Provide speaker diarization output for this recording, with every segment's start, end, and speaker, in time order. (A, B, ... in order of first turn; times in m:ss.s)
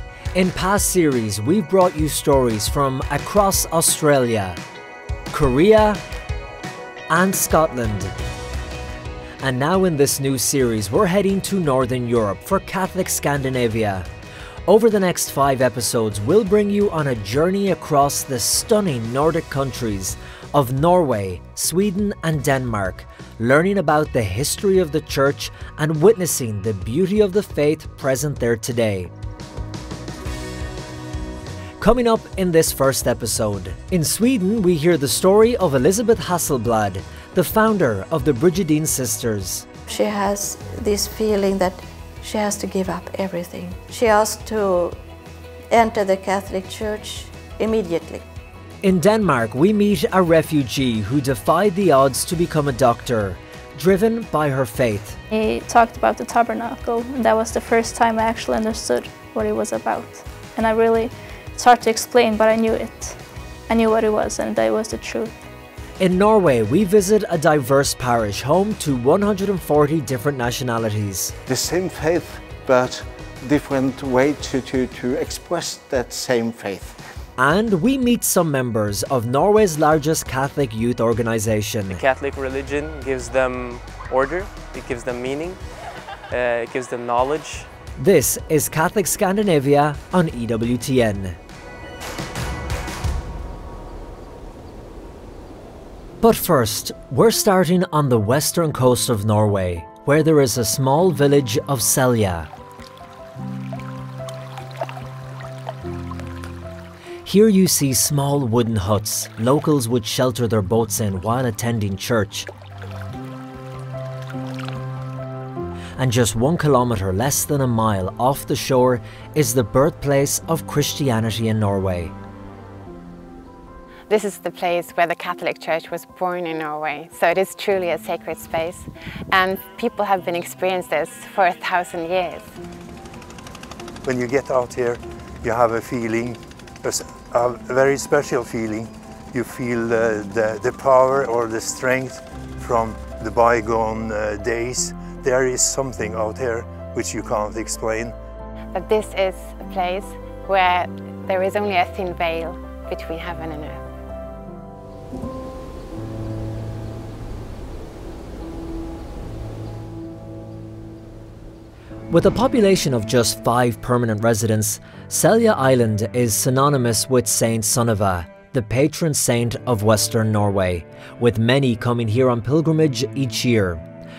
0:00.3-0:04.6 A
0:05.3-0:06.0 A
0:07.1-0:08.1 A
0:09.4-0:14.1 A
0:14.7-0:29.1 A
0:31.8-0:39.7 A
0:39.9-0:45.0 B
0:45.7-0:48.2 B
0:48.8-0:55.2 A
0:55.3-1:05.4 C
1:06.0-1:11.3 A
1:11.5-1:17.0 D
1:17.4-1:22.0 A
1:21.9-1:25.6 E
1:26.3-1:27.7 E
1:28.0-1:31.4 A
1:36.2-1:42.5 A
1:47.2-1:52.5 A
1:56.0-2:02.1 A
2:04.1-2:12.5 F
2:14.0-2:28.1 G
2:28.7-2:33.8 F
2:42.1-2:53.8 A